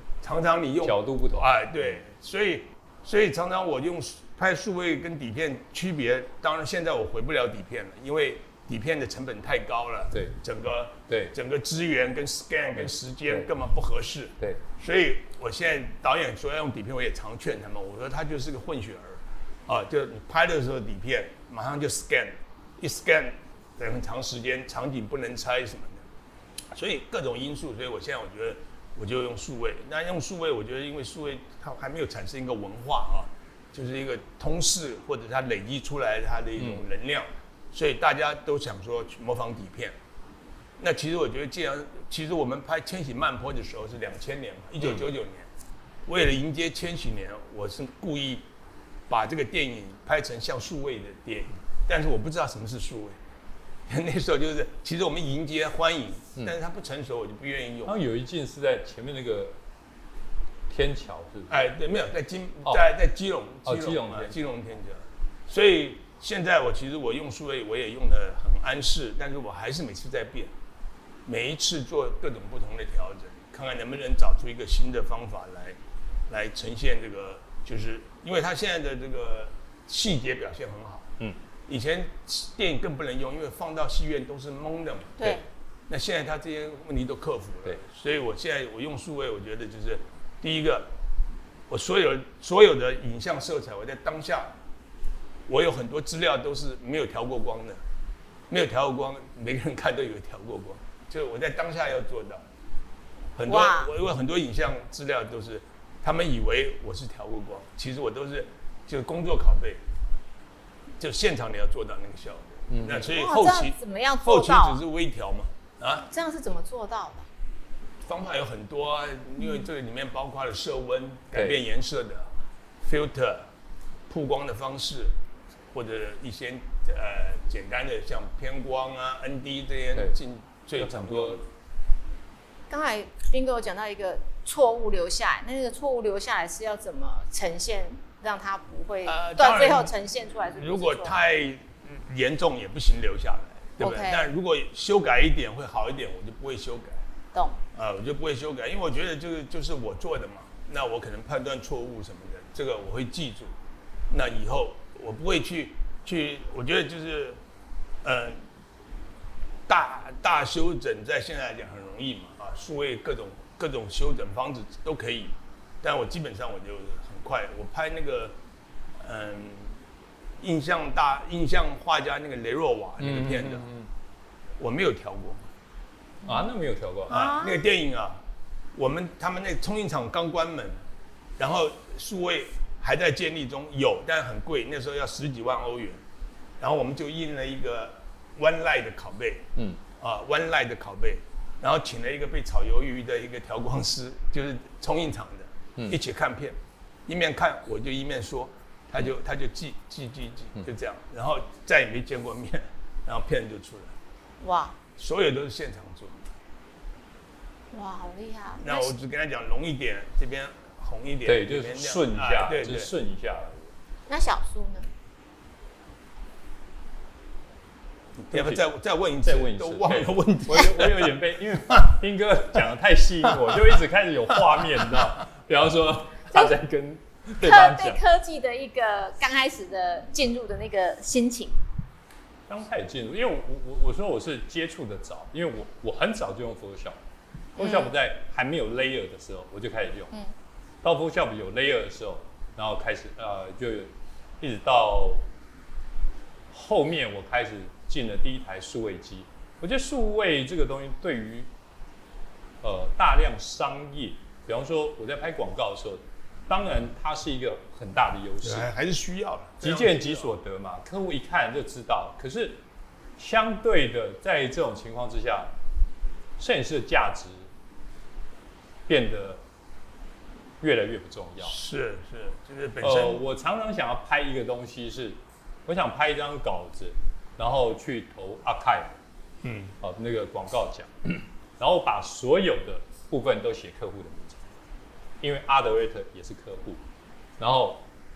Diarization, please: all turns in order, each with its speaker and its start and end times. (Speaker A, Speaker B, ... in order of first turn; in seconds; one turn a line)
Speaker A: 0.2-26.0
Speaker B: 0.8-2.0
Speaker B: 10.1-10.4
Speaker B: 11.1-11.3
Speaker B: 12.7-13.5
Speaker A: 26.7-40.0
Speaker B: 36.6-36.9
Speaker A: 40.8-45.5
Speaker A: 46.0-48.5
Speaker A: 49.1-53.2
Speaker A: 53.9-57.9
Speaker B: 57.9-59.5
Speaker B: 60.7-61.6
Speaker A: 61.5-70.5
Speaker B: 63.6-64.3
Speaker A: 71.2-75.8
Speaker A: 76.3-81.1
Speaker A: 81.7-90.9
Speaker C: 85.2-85.4
Speaker A: 91.7-94.5
Speaker A: 95.5-97.8
Speaker A: 98.5-102.4
Speaker A: 103.3-109.8
Speaker C: 103.5-103.9
Speaker A: 111.0-116.1
Speaker B: 112.7-113.1
Speaker C: 113.0-114.8
Speaker C: 116.0-117.3
Speaker A: 118.0-122.3
Speaker C: 119.4-119.7
Speaker B: 121.3-121.6
Speaker A: 122.8-123.5
Speaker A: 124.1-125.1
Speaker A: 125.7-131.4
Speaker B: 130.8-131.4
Speaker C: 132.7-141.2
Speaker A: 139.1-139.9
Speaker A: 140.6-147.0
Speaker C: 143.8-144.3
Speaker A: 147.7-153.5
Speaker A: 154.1-157.4
Speaker A: 158.0-158.4
Speaker A: 159.7-168.3
Speaker A: 169.0-169.8
Speaker A: 170.4-173.6
Speaker B: 173.0-173.9
Speaker A: 174.6-175.5
Speaker B: 176.2-177.1
Speaker C: 177.1-177.6
Speaker A: 177.1-178.2
Speaker A: 178.7-180.8
Speaker A: 181.4-186.0
Speaker A: 186.6-189.5
Speaker B: 189.6-189.8
Speaker A: 190.0-203.9
Speaker C: 204.4-204.8
Speaker A: 205.0-206.2
Speaker C: 207.7-208.9
Speaker A: 208.6-212.9
Speaker B: 211.2-213.7
Speaker C: 214.1-214.9
Speaker A: 218.2-221.1
Speaker B: 218.3-218.7
Speaker B: 219.2-228.0
Speaker C: 227.4-231.6
Speaker B: 232.5-237.0
Speaker C: 237.6-237.9
Speaker B: 237.6-240.1
Speaker B: 240.8-245.2
Speaker B: 246.5-251.5
Speaker B: 252.6-258.7
Speaker A: 258.4-260.3
Speaker B: 259.6-262.6
Speaker B: 263.2-265.5
Speaker B: 266.4-267.5
Speaker B: 268.9-269.4
Speaker B: 270.6-271.6
Speaker A: 271.4-273.2
Speaker B: 272.8-279.0
Speaker A: 279.4-279.7
Speaker B: 279.8-284.4
Speaker B: 285.2-286.8
Speaker B: 287.4-287.9